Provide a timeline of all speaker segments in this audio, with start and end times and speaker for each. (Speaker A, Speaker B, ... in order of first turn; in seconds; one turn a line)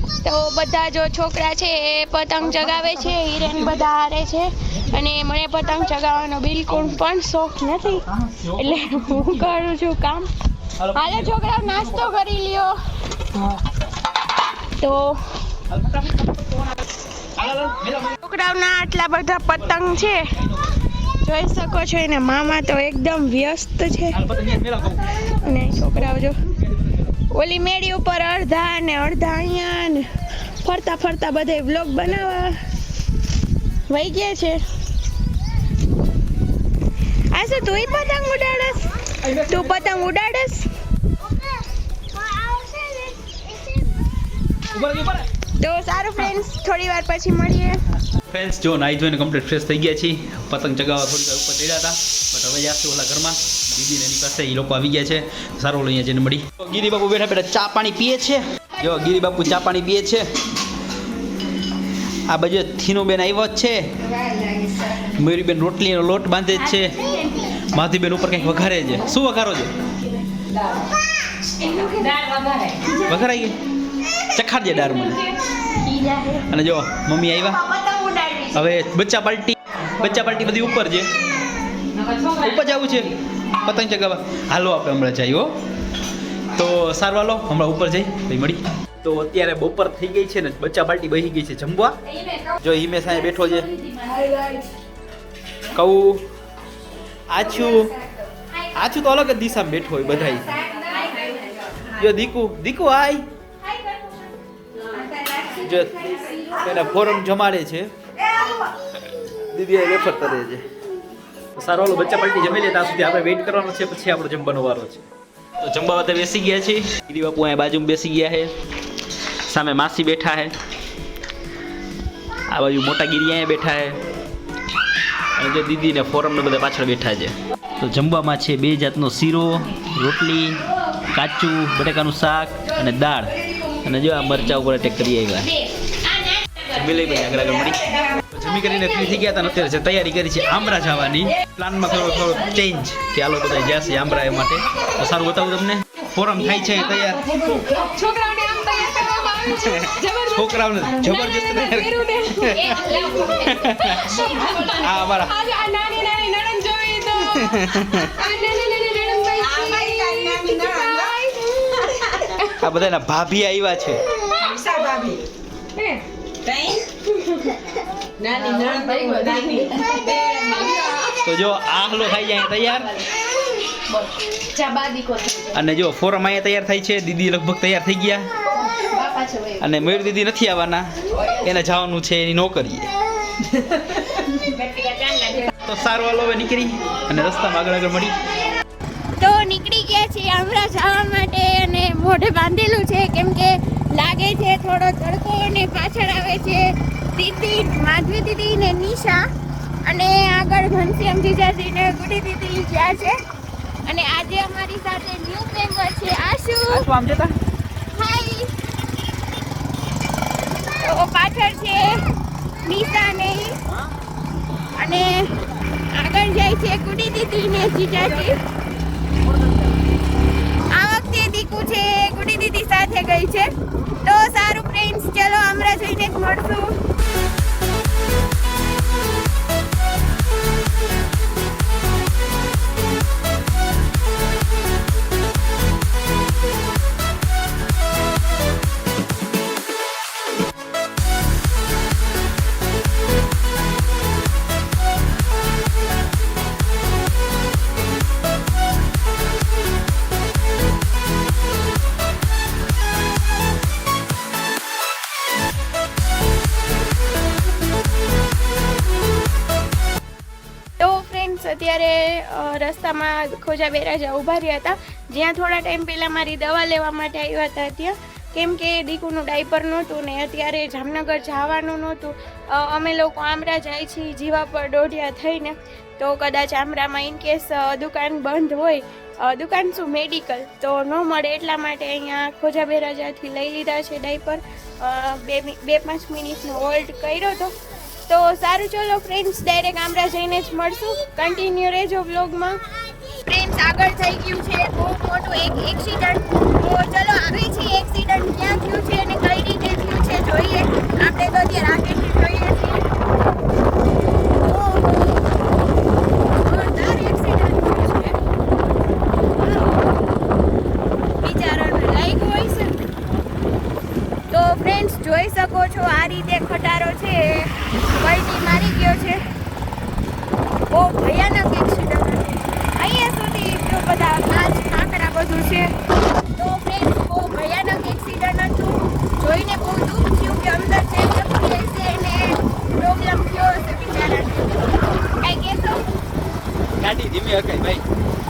Speaker A: 0.2-10.3
Speaker B: 2.4-3.7
Speaker B: 8.1-9.6
Speaker B: 10.8-12.1
Speaker A: 10.9-13.6
Speaker A: 14.5-15.6
Speaker B: 15.7-18.2
Speaker A: 18.1-20.4
Speaker B: 20.4-20.8
Speaker A: 20.9-24.2
Speaker B: 24.1-25.2
Speaker A: 25.2-26.4
Speaker A: 27.3-32.6
Speaker A: 33.9-34.6
Speaker A: 37.3-40.7
Speaker B: 39.2-39.9
Speaker A: 42.1-44.0
Speaker B: 44.7-45.3
Speaker A: 45.6-47.8
Speaker B: 48.1-60.3
Speaker B: 62.3-64.1
Speaker B: 64.8-67.1
Speaker A: 66.8-67.5
Speaker B: 67.7-69.7
Speaker A: 71.6-72.0
Speaker C: 72.0-72.8
Speaker B: 73.0-73.6
Speaker B: 74.2-75.3
Speaker A: 75.7-76.5
Speaker B: 76.5-77.6
Speaker A: 77.5-78.6
Speaker B: 78.5-81.1
Speaker B: 82.2-85.5
Speaker B: 86.4-92.0
Speaker B: 92.6-93.7
Speaker C: 94.1-94.6
Speaker B: 95.7-96.2
Speaker B: 97.3-98.0
Speaker B: 98.7-100.6
Speaker B: 101.9-103.2
Speaker B: 105.6-107.9
Speaker B: 109.4-110.7
Speaker B: 111.6-115.1
Speaker B: 115.6-118.5
Speaker B: 119.1-120.5
Speaker B: 122.5-124.0
Speaker B: 125.3-135.6
Speaker A: 135.9-136.7
Speaker B: 136.7-147.4
Speaker C: 147.5-150.4
Speaker B: 149.9-155.5
Speaker C: 151.3-153.5
Speaker C: 154.2-162.2
Speaker B: 157.3-158.2
Speaker B: 162.4-164.1
Speaker C: 164.4-165.2
Speaker C: 165.8-166.8
Speaker C: 168.2-171.1
Speaker B: 171.1-173.0
Speaker C: 174.7-175.5
Speaker B: 175.5-178.3
Speaker C: 179.2-179.5
Speaker B: 179.6-182.9
Speaker A: 184.4-185.5
Speaker B: 185.6-188.2
Speaker A: 189.2-199.2
Speaker A: 199.8-203.2
Speaker A: 203.8-206.8
Speaker B: 206.7-207.4
Speaker A: 207.9-208.6
Speaker A: 210.7-212.0
Speaker A: 212.6-213.6
Speaker A: 214.8-215.3
Speaker A: 215.9-218.4
Speaker A: 220.7-223.5
Speaker A: 224.0-226.7
Speaker A: 260.8-287.6
Speaker A: 288.1-302.9
Speaker A: 304.4-305.3
Speaker A: 306.4-308.2
Speaker A: 309.4-309.9
Speaker A: 311.2-312.8
Speaker A: 314.3-319.2
Speaker A: 320.7-325.7
Speaker A: 326.4-334.6
Speaker A: 335.1-336.0
Speaker B: 336.8-337.8